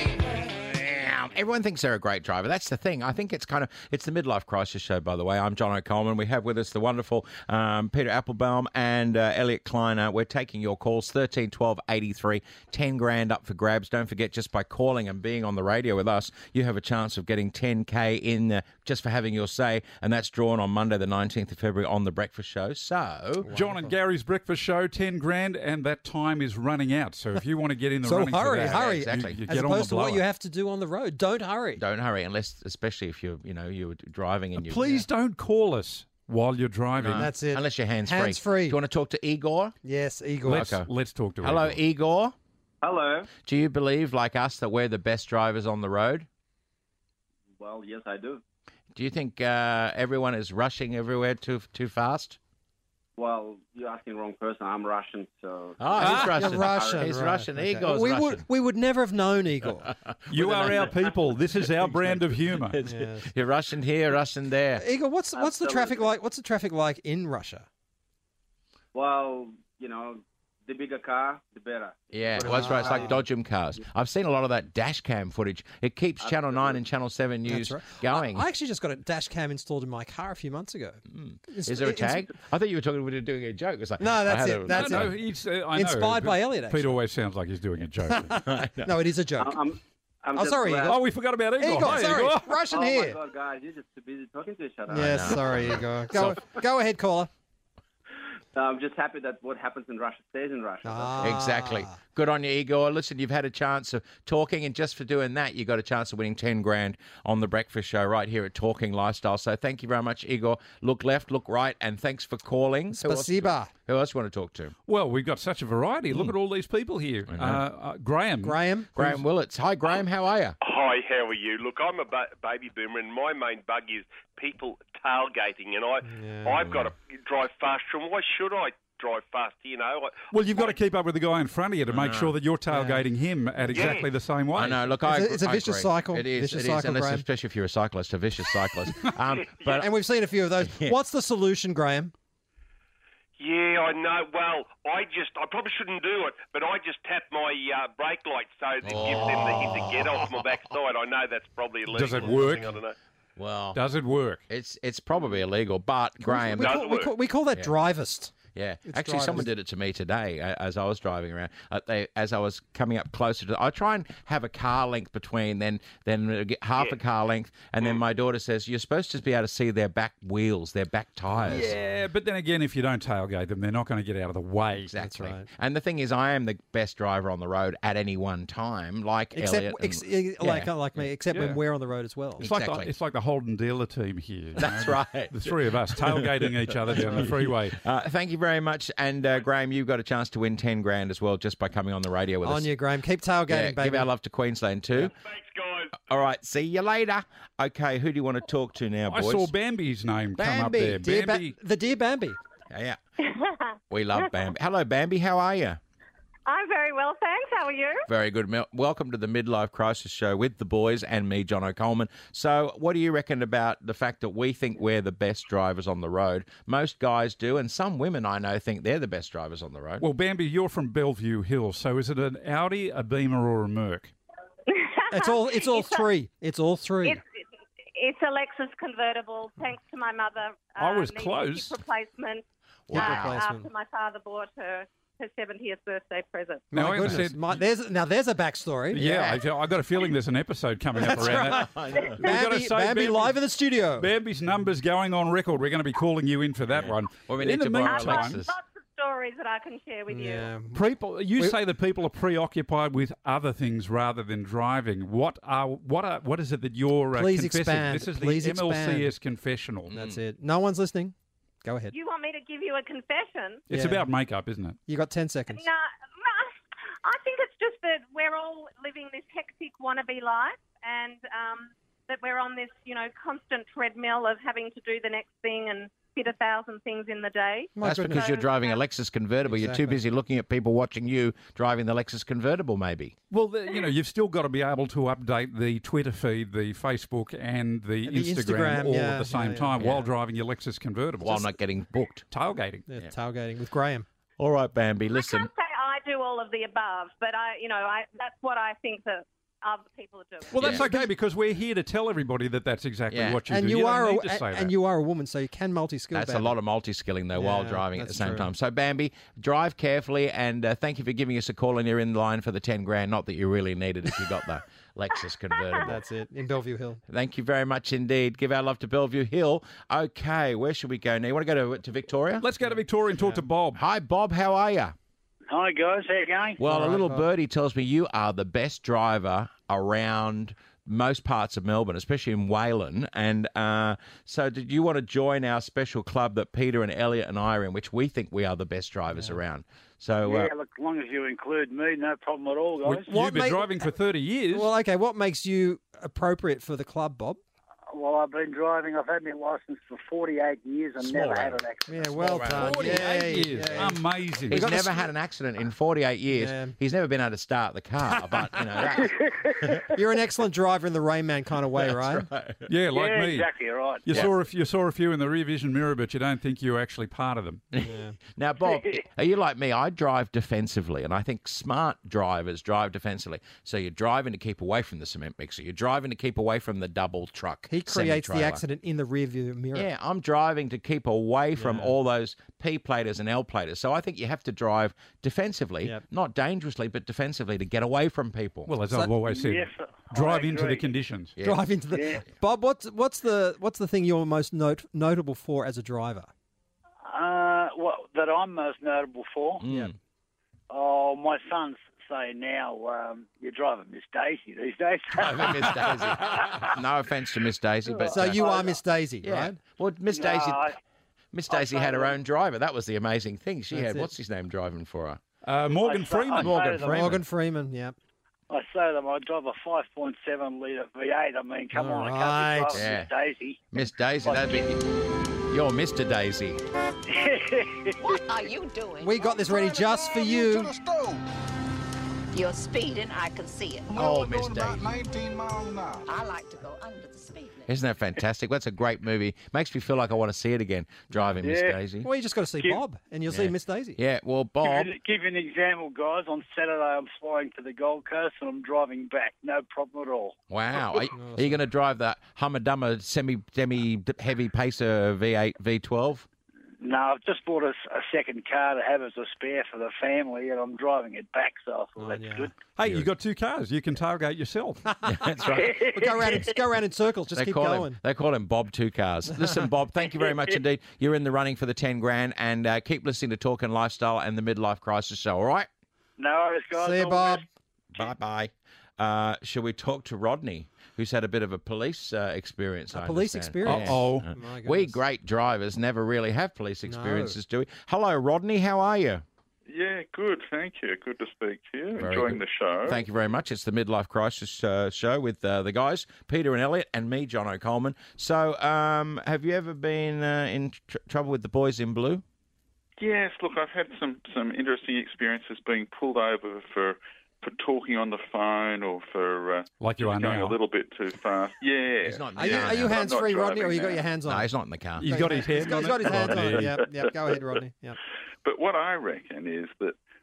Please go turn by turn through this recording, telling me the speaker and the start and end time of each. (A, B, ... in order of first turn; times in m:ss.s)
0:00.5-0:23.5 A
0:23.4-0:23.9 B
0:23.5-0:30.2 C
0:28.0-0:31.8 B
0:28.7-0:29.4 A
0:31.8-0:34.9 A
0:34.6-0:37.3 C
0:37.0-0:39.7 A
0:37.2-0:38.8 B
0:39.8-0:40.7 B
0:40.4-0:40.9 A
0:40.4-0:41.8 C
0:41.4-0:42.3 A
0:42.8-0:43.3 D
0:43.4-0:46.3 A
0:47.6-0:48.4 D
0:48.9-0:52.4 A
0:53.2-0:57.1 D
0:55.8-0:58.4 A
0:56.0-0:59.9 B
0:59.9-1:01.0 A
1:00.3-1:02.8 C
1:01.7-1:04.8 A
1:02.8-1:03.3 B
1:04.8-1:07.7 B
1:05.3-1:06.1 D
1:08.9-1:13.2 D
1:12.1-1:18.4 A
1:12.4-1:13.2 B
1:16.2-1:16.8 D
1:17.4-1:22.3 B
1:21.1-1:25.1 A
1:24.0-1:25.2 B
1:24.7-1:28.4 C
1:25.7-1:27.0 B
1:28.1-1:29.6 B
1:28.4-1:28.9 A
1:29.4-1:31.0 D
1:30.3-1:31.0 B
1:30.8-1:32.5 C
1:31.6-1:33.2 B
1:31.9-1:35.6 D
1:34.9-1:36.4 A
1:34.9-1:37.3 B
1:38.5-1:41.4 D
1:40.8-1:42.0 B
1:41.2-1:54.7 A
1:52.9-1:53.7 B
1:54.9-1:59.1 C
1:57.3-1:57.6 A
1:58.4-1:58.9 B
1:59.0-2:00.6 A
2:00.6-2:10.7 E
2:06.0-2:06.6 B
2:06.6-2:06.9 A
2:10.3-2:14.8 C
2:11.9-2:12.3 A
2:12.7-2:13.0 B
2:13.7-2:14.1 E
2:13.7-2:14.0 A
2:14.5-2:19.9 A
2:15.0-2:17.2 B
2:19.6-2:22.1 B
2:20.6-2:21.0 A
2:23.4-2:32.9 E
2:28.8-2:30.4 A
2:31.9-2:32.8 C
2:33.4-2:33.8 A
2:33.7-2:34.4 C
2:34.5-2:36.9 A
2:36.2-2:38.3 B
2:36.6-2:37.1 E
2:38.5-2:51.7 A
2:38.8-2:39.5 B
2:51.5-2:54.9 C
2:54.8-3:00.7 A
2:55.0-2:55.5 B
2:59.3-3:02.4 B
3:01.3-3:01.6 C
3:02.4-3:07.8 C
3:02.4-3:02.9 A
3:04.6-3:12.7 A
3:06.9-3:07.2 B
3:12.4-3:14.1 B
3:13.5-3:15.1 A
3:14.9-3:16.0 E
3:16.0-3:19.5 A
3:19.1-3:21.6 C
3:20.4-3:22.4 B
3:22.7-3:23.0 A
3:23.2-3:23.7 F
3:23.9-3:25.8 A
3:26.4-3:28.0 F
3:28.0-3:40.0 A
3:40.0-3:44.1 C
3:44.7-3:46.0 F
3:45.1-3:47.2 B
3:47.0-3:47.4 F
3:47.9-3:56.7 F
3:50.8-3:51.8 C
3:52.9-3:53.4 A
3:52.9-3:53.7 B
3:56.7-3:59.0 B
3:56.7-3:57.6 C
3:58.9-4:03.4 C
3:58.9-3:59.4 A
4:01.0-4:04.1 B
4:01.1-4:02.2 A
4:04.0-4:08.4 C
4:06.7-4:08.5 A
4:07.8-4:10.5 F
4:10.1-4:10.8 B
4:10.7-4:19.9 C
4:17.1-4:19.1 B
4:19.9-4:20.2 A
4:19.9-4:21.9 B
4:21.9-4:23.6 F
4:23.7-4:24.8 C
4:23.7-4:24.0 B
4:24.9-4:25.6 B
4:25.5-4:38.8 F
4:37.8-4:38.2 B
4:37.8-4:43.1 A
4:39.4-4:40.0 B
4:43.3-4:51.5 C
4:48.0-4:50.1 B
4:51.2-4:52.2 A
4:52.3-4:52.8 C
4:52.9-4:54.0 B
4:54.4-4:55.5 A
4:55.1-5:00.6 F
5:00.5-5:04.7 C
5:00.6-5:00.8 A
5:00.6-5:01.1 B
5:03.1-5:03.4 A
5:03.5-5:06.6 B
5:06.1-5:16.0 A
5:07.4-5:08.5 B
5:15.8-5:17.0 B
5:17.1-5:22.4 A
5:22.4-5:23.8 C
5:22.6-5:23.4 B
5:23.7-5:24.9 A
5:25.5-5:26.6 G
5:26.6-5:40.5 A
5:26.6-5:27.2 B
5:40.2-5:43.1 G
5:42.8-5:44.7 C
5:43.1-5:43.9 B
5:44.5-5:47.4 B
5:47.9-5:51.9 G
5:51.0-5:53.1 A
5:51.9-5:55.0 B
5:52.5-5:54.7 C
5:54.5-5:59.8 A
5:56.3-5:56.8 B
5:58.9-5:59.8 G
5:59.9-6:02.3 B
6:01.8-6:02.7 A
6:02.7-6:03.5 C
6:02.9-6:04.1 G
6:04.0-6:07.6 C
6:07.7-6:18.6 A
6:07.8-6:08.2 B
6:08.6-6:09.0 G
6:17.7-6:19.9 B
6:19.7-6:28.7 A
6:21.6-6:21.9 B
6:28.7-6:31.3 C
6:29.3-6:30.9 G
6:31.4-6:31.6 A
6:31.4-6:36.3 B
6:31.9-6:32.2 G
6:37.0-6:39.6 G
6:39.6-6:39.9 A
6:39.7-6:39.9 B
6:40.7-6:46.7 G
6:45.1-6:48.6 A
6:47.9-6:48.8 G
6:48.1-6:49.6 B
6:49.2-6:50.7 A
6:50.1-6:50.8 G
6:51.3-6:55.2 A
6:51.5-6:52.2 G
6:53.7-6:54.1 B
6:55.4-6:57.2 C
6:55.7-6:57.1 G
6:56.3-6:57.2 A
6:56.8-6:57.9 B
6:58.5-7:03.6 G
7:01.7-7:02.8 B
7:02.7-7:03.1 A
7:03.7-7:04.8 A
7:04.2-7:04.6 G
7:05.5-7:06.6 A
7:07.1-7:08.1 G
7:08.0-7:09.7 H
7:09.0-7:10.8 B
7:12.3-7:14.1 H
7:13.9-7:15.0 A
7:16.0-7:17.7 H
7:17.7-7:22.1 A
7:21.4-7:21.8 G
7:22.0-7:24.0 B
7:23.3-7:24.9 A
7:24.6-7:30.4 G
7:30.5-7:36.3 A
7:31.1-7:31.6 B
7:36.8-7:42.5 G
7:42.0-7:42.5 B
7:42.7-7:44.8 C
7:45.0-7:46.2 A
7:45.4-7:46.5 G
7:45.7-7:48.0 B
7:47.3-7:55.7 A
7:56.2-7:57.4 G
7:56.8-7:57.4 B
7:57.9-8:09.2 A
8:02.9-8:05.0 B
8:03.6-8:04.2 C
8:06.8-8:07.4 B
8:09.7-8:13.0 I
8:12.0-8:22.2 A
8:23.0-8:34.1 I
8:29.8-8:30.6 C
8:32.0-8:33.1 A
8:32.4-8:34.5 B
8:34.3-8:35.1 A
8:35.0-8:36.7 C
8:35.0-8:38.0 B
8:36.3-8:36.7 I
8:38.4-8:40.0 I